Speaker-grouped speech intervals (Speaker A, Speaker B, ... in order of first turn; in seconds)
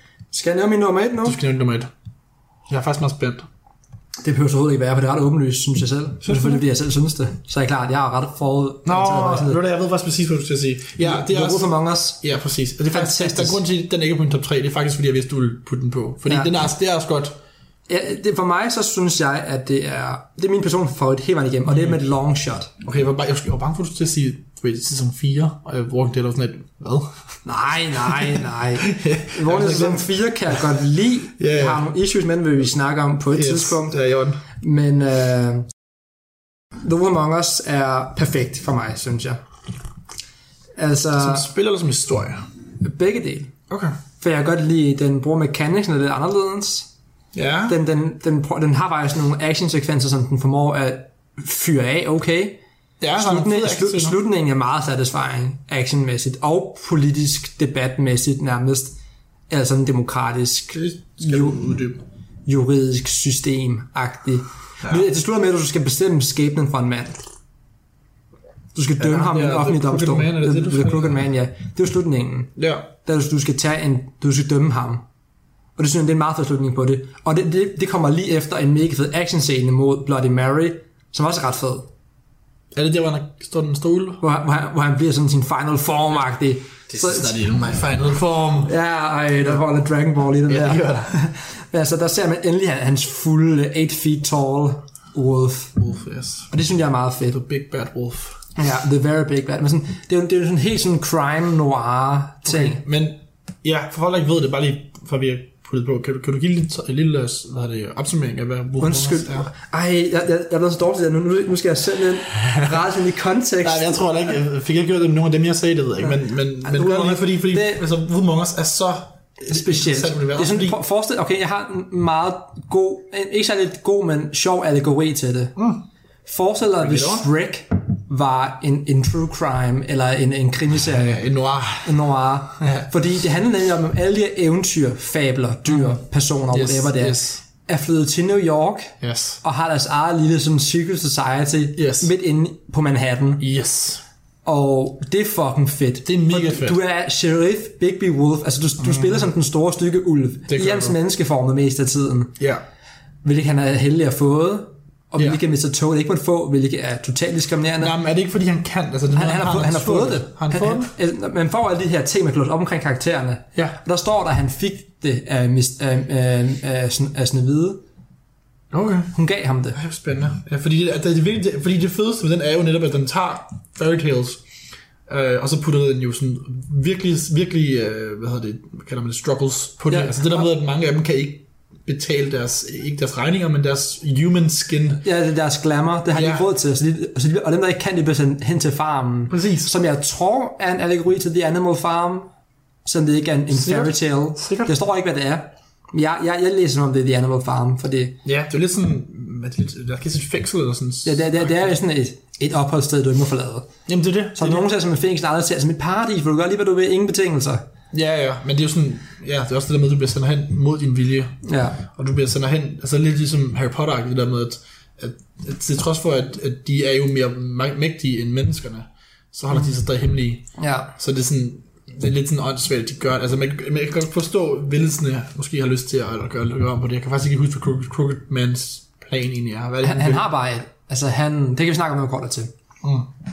Speaker A: 0.3-1.4, 4.2-9.6, 11.0-12.2, 12.9-13.6, 16.3-16.5, 17.9-22.7, 27.4-34.0, 34.6-35.7, 36.8-39.4, 40.8-41.5, 42.8-43.5, 44.2-46.9, 47.7-52.6, 53.1-59.0, 59.5-61.6, 62.5-67.2, 68.7-72.5, 73.0-75.0, 75.8-81.9, 84.2-87.3, 88.7-95.8, 96.5-97.4, 98.5-102.8, 108.8-114.0, 116.0-117.8, 119.5-125.5, 126.2-131.2, 131.8-143.4, 144.4-152.3, 153.2-157.9, 159.1-167.8, 169.1-169.8, 179.9-180.4, 185.0-192.3, 192.8-198.2, 201.0-203.7, 204.3-207.6, 211.4-211.8, 220.6-220.9, 229.8-232.5
Speaker B: 1.2-1.9, 2.7-3.5, 6.2-6.6, 8.8-17.3, 21.7-21.9, 22.8-27.1, 28.0-30.6, 31.4-31.8, 33.3-34.4, 41.2-42.4, 43.7-44.0, 47.3-47.8, 53.0-54.2, 60.7-62.0, 69.0-71.2, 72.6-72.9, 82.7-84.2, 86.9-88.7, 90.5-91.1, 95.8-96.5, 97.3-98.4, 102.4-109.5, 113.6-120.8, 125.5-125.8, 126.8-127.3, 130.8-132.0, 132.6-132.9, 135.7-136.0, 136.5-137.4, 139.0-139.4, 141.8-142.1, 143.4-144.0, 146.0-146.8, 148.8-149.2, 150.5-151.0, 157.8-160.9, 168.7-169.1, 169.7-174.4, 175.1-185.0, 186.1-186.4, 189.3-189.7, 193.5-194.7, 198.2-201.7, 203.9-204.7, 207.9-211.3, 211.9-230.3, 232.8-233.1